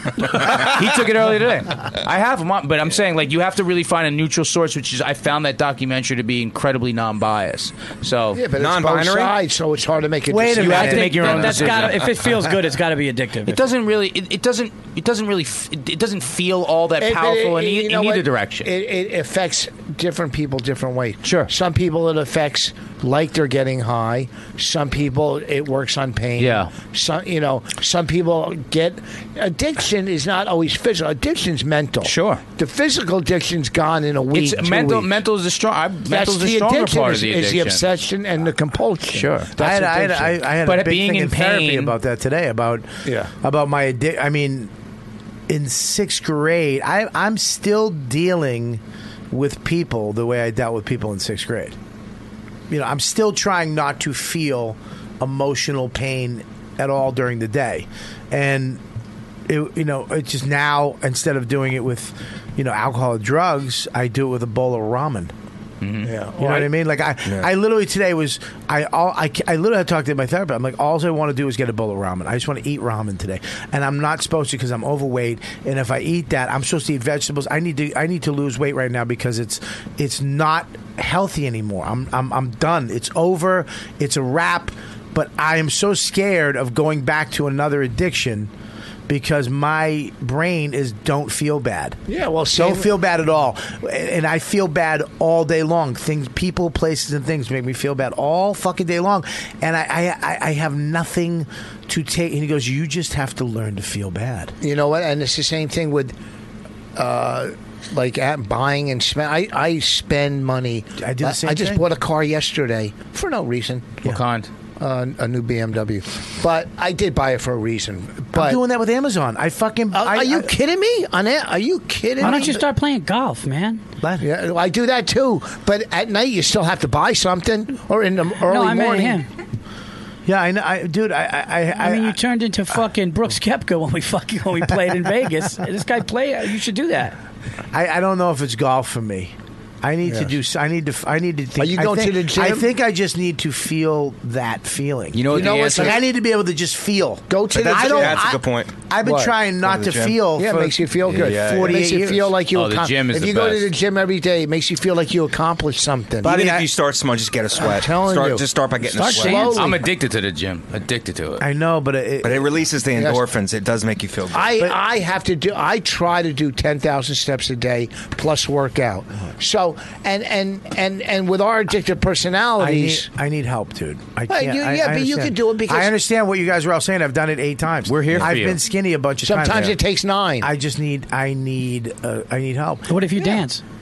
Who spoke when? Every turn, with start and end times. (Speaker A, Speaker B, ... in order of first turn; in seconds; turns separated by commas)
Speaker A: 0.3-8.4, Speaker B: 8.3-10.9, Speaker C: 8.6-9.4, Speaker D: 10.3-11.7, Speaker A: 10.6-12.0, Speaker E: 10.7-13.6, Speaker A: 13.5-18.7, Speaker B: 17.0-35.2, Speaker A: 21.2-21.5, Speaker A: 26.4-26.7, Speaker A: 32.0-32.4, Speaker A: 34.3-37.9, Speaker B: 36.1-40.3, Speaker A: 39.1-39.5, Speaker D: 39.6-42.9, Speaker A: 40.6-41.9, Speaker B: 43.1-43.3, Speaker D: 43.4-44.7, Speaker D: 45.5-51.8, Speaker D: 52.7-58.8, Speaker D: 59.5-65.3, Speaker A: 65.8-66.1, Speaker B: 66.1-66.6, Speaker D: 66.4-88.5, Speaker D: 89.1-92.0, Speaker B: 92.1-92.9, Speaker D: 92.5-104.5, Speaker B: 104.6-106.1, Speaker B: 107.0-114.0, Speaker D: 111.0-111.8, Speaker A: 114.0-114.5, Speaker B: 114.8-118.6, Speaker D: 118.3-120.5, Speaker B: 119.9-122.6, Speaker E: 122.2-123.8, Speaker D: 122.2-122.6, Speaker D: 124.0-124.3, Speaker B: 124.2-129.2, Speaker E: 128.5-129.3, Speaker D: 130.3-132.2, Speaker E: 131.8-137.2, Speaker D: 137.7-152.3, Speaker B: 141.6-142.7, Speaker A: 145.1-146.0, Speaker B: 145.3-146.0, Speaker B: 147.3-148.3, Speaker C: 147.5-148.8, Speaker B: 149.0-149.3, Speaker C: 149.6-150.2, Speaker B: 150.3-156.5, Speaker C: 151.1-151.8, Speaker A: 152.5-153.7, Speaker C: 156.2-159.6, Speaker D: 156.3-156.6, Speaker B: 157.6-159.8, Speaker A: 159.1-161.4, Speaker D: 161.4-162.5, Speaker C: 162.2-164.5, Speaker B: 162.9-163.2, Speaker B: 164.3-173.1, Speaker D: 172.6-179.7, Speaker B: 174.3-175.9, Speaker A: 177.9-178.6, Speaker B: 179.2-180.5, Speaker D: 180.4-183.0, Speaker E: 182.9-183.6